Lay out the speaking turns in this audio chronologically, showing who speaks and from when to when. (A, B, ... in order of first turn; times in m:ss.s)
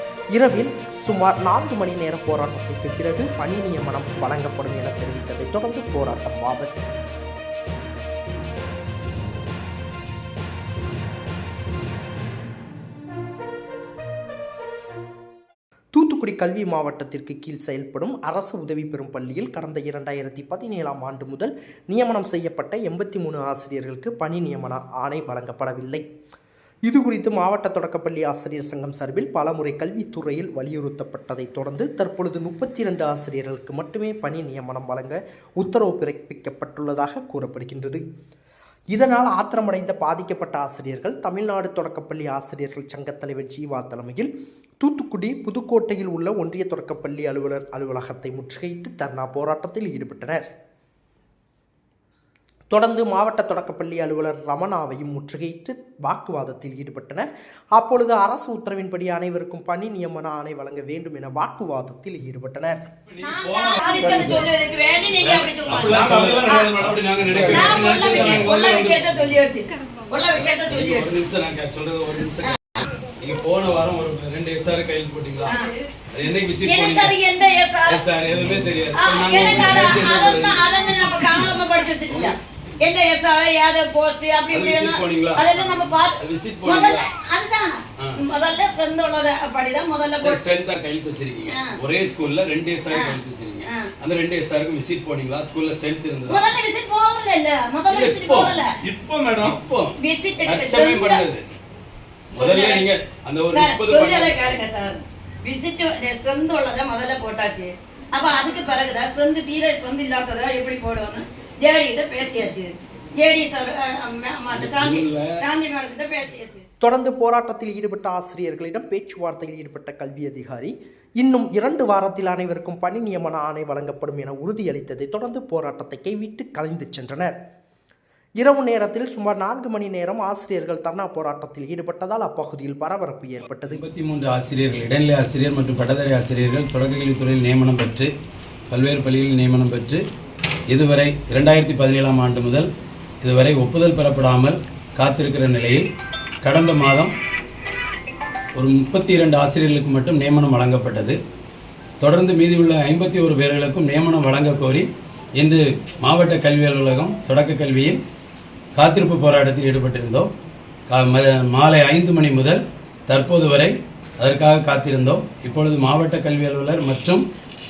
0:00.3-0:06.8 A
0:15.9-0:26.0 A
0:26.8-0:38.0 A
0:38.9-0:44.3 A
0:44.8-0:50.5 A
0:52.7-1:02.9 A
1:03.1-1:04.5 B
1:03.2-1:06.8 C
1:05.2-1:09.0 B
1:07.5-1:11.1 C
1:10.4-1:12.6 B
1:12.4-1:12.8 C
1:13.2-1:15.5 B
1:16.1-1:17.1 B
1:16.6-1:18.0 C
1:17.8-1:20.7 B
1:18.9-1:30.4 C
1:22.1-1:22.4 B
1:24.5-1:25.4 B
1:26.2-1:27.1 B
1:30.2-1:36.4 B
1:31.5-1:31.8 C
1:32.9-1:33.9 C
1:36.3-1:38.7 C
1:37.9-1:41.4 B
1:40.0-1:41.2 C
1:42.3-1:44.4 B
1:42.4-1:42.8 C
1:43.5-1:56.6 C
1:54.5-1:55.4 B
1:56.8-2:07.3 A
2:08.4-2:13.8 A
2:13.6-2:18.1 B
2:18.7-2:20.0 B
2:20.7-2:22.7 B
2:23.2-2:25.8 B
2:26.4-2:27.1 B
2:28.6-2:31.2 B
2:32.0-2:34.8 B
2:35.4-2:38.0 B
2:38.8-2:40.3 B
2:40.9-2:47.2 B